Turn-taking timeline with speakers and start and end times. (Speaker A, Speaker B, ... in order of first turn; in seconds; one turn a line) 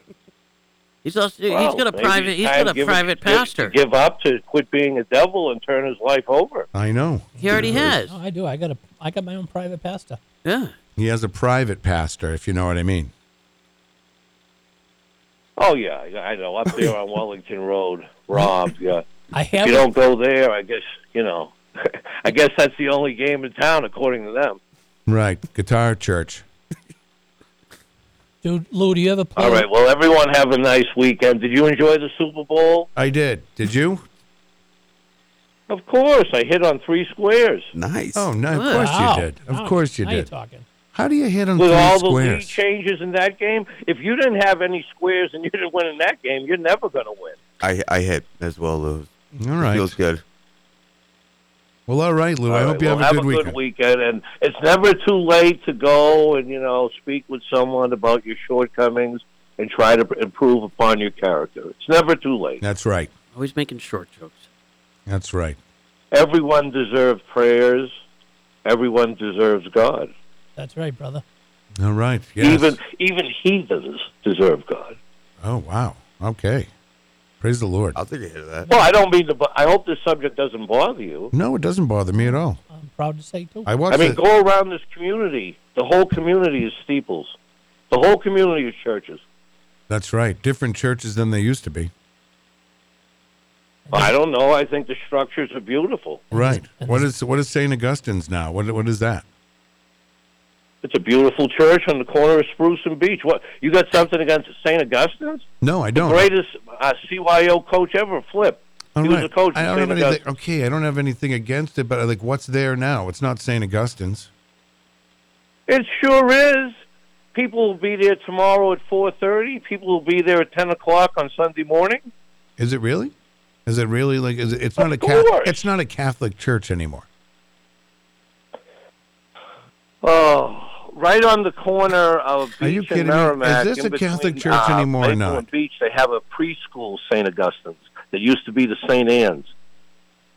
Speaker A: 1.0-3.8
Speaker B: 1.5-6.7
Speaker C: 6.7-8.0
Speaker D: 7.4-10.2
Speaker A: 7.4-8.2
Speaker A: 10.4-10.7
Speaker C: 11.0-13.1
Speaker B: 15.6-19.1
Speaker D: 19.3-19.9
Speaker B: 19.6-24.6
Speaker C: 25.1-26.5
Speaker D: 28.4-29.7
Speaker B: 29.4-32.9
Speaker C: 33.0-34.0
Speaker B: 35.7-37.7
Speaker E: 37.8-38.3
Speaker C: 38.1-40.3
Speaker A: 38.5-38.9
Speaker D: 38.7-40.7
Speaker C: 40.9-42.6
Speaker B: 41.6-47.4
Speaker E: 47.6-50.2
Speaker C: 49.4-50.0
Speaker C: 51.9-53.6
Speaker B: 52.5-62.6
Speaker C: 62.6-63.1
Speaker A: 63.3-64.5
Speaker C: 65.1-65.6
Speaker B: 66.1-67.9
Speaker B: 68.7-70.1
Speaker D: 70.6-71.2
Speaker C: 71.8-72.8
Speaker B: 72.4-75.0
Speaker C: 75.4-76.7
Speaker C: 77.4-78.0
Speaker E: 78.0-78.7
Speaker B: 78.7-81.3
Speaker C: 81.3-82.6
Speaker D: 82.2-83.8
Speaker C: 83.7-84.2
Speaker B: 83.9-87.3
Speaker B: 87.9-89.2
Speaker C: 89.9-91.9
Speaker D: 93.9-94.1
Speaker B: 93.9-96.3
Speaker D: 96.3-97.1
Speaker C: 96.3-99.2
Speaker B: 100.8-110.2
Speaker C: 105.6-106.3
Speaker C: 109.0-114.3
Speaker B: 115.7-116.8
Speaker B: 117.3-122.1
Speaker C: 122.6-123.1
Speaker C: 123.7-127.1
Speaker B: 124.8-125.6
Speaker B: 130.0-139.5
Speaker C: 132.6-135.5